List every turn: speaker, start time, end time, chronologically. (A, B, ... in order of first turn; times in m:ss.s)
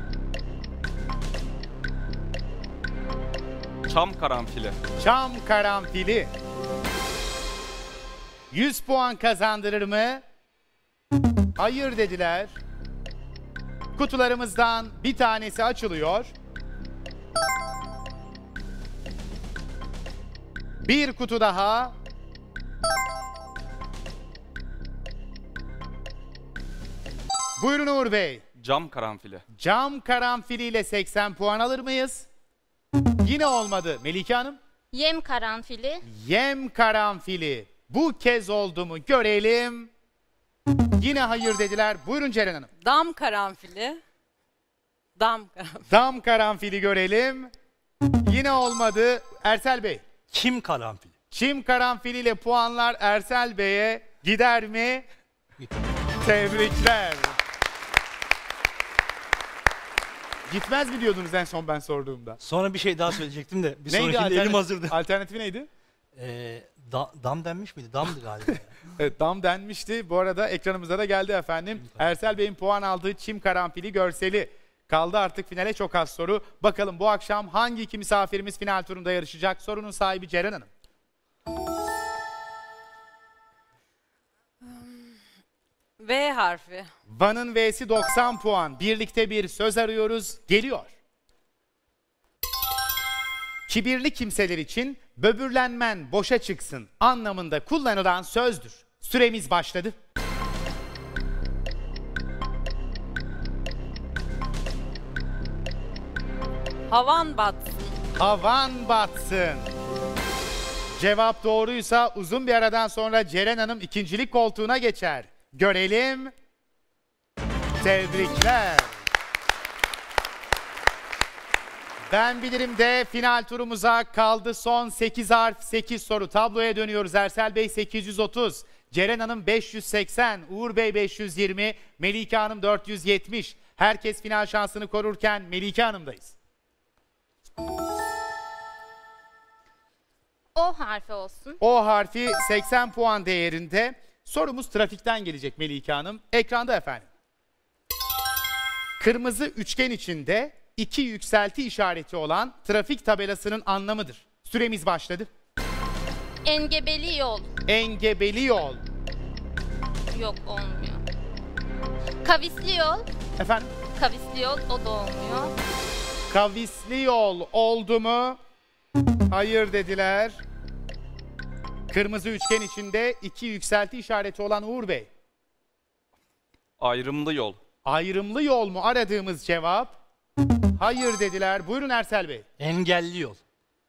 0:03.9-0:04.8 A
0:05.0-0:06.3 B
0:08.5-0:10.2 B
0:11.6-0:12.6 B
0:14.0-0:16.3 B
0:20.8-0:21.9 B
0:27.6-0:28.4 B
0:28.6-0:29.4 A
0:29.6-0:32.3 B
0:33.2-0:34.6 B
0:34.9-0:36.0 C
0:36.0-0:39.9 B
0:41.0-0:42.7 B
0:42.8-0:44.0 D
0:45.2-0:45.8 D
0:45.9-0:47.5 B
0:48.2-0:50.0 B
0:50.3-0:51.1 E
0:51.3-0:55.0 B
0:56.2-0:57.4 B
1:00.5-1:02.4 B
1:02.4-1:05.0 E
1:03.9-1:05.7 B
1:06.1-1:08.7 E
1:09.0-1:20.7 B
1:24.6-1:25.2 D
1:26.0-1:26.9 D
1:27.1-1:30.9 B
1:33.7-1:39.9 B
1:46.9-1:48.0 D
1:48.2-1:49.7 B
1:50.9-1:56.3 B
1:57.8-1:58.9 B
2:02.1-2:16.4 B
2:20.5-2:21.6 C
2:21.6-2:27.1 B
2:29.0-2:35.3 B
2:36.4-2:37.5 C
2:37.7-2:38.8 B
2:40.1-2:41.0 C
2:42.2-2:43.0 C
2:43.4-2:43.7 B
2:44.0-2:45.5 C
2:46.3-2:48.4 B
2:49.3-2:50.4 B
2:51.9-2:55.1 B
2:56.8-2:57.6 A
2:57.8-3:00.0 B
3:00.8-3:02.4 B
3:02.6-3:03.4 E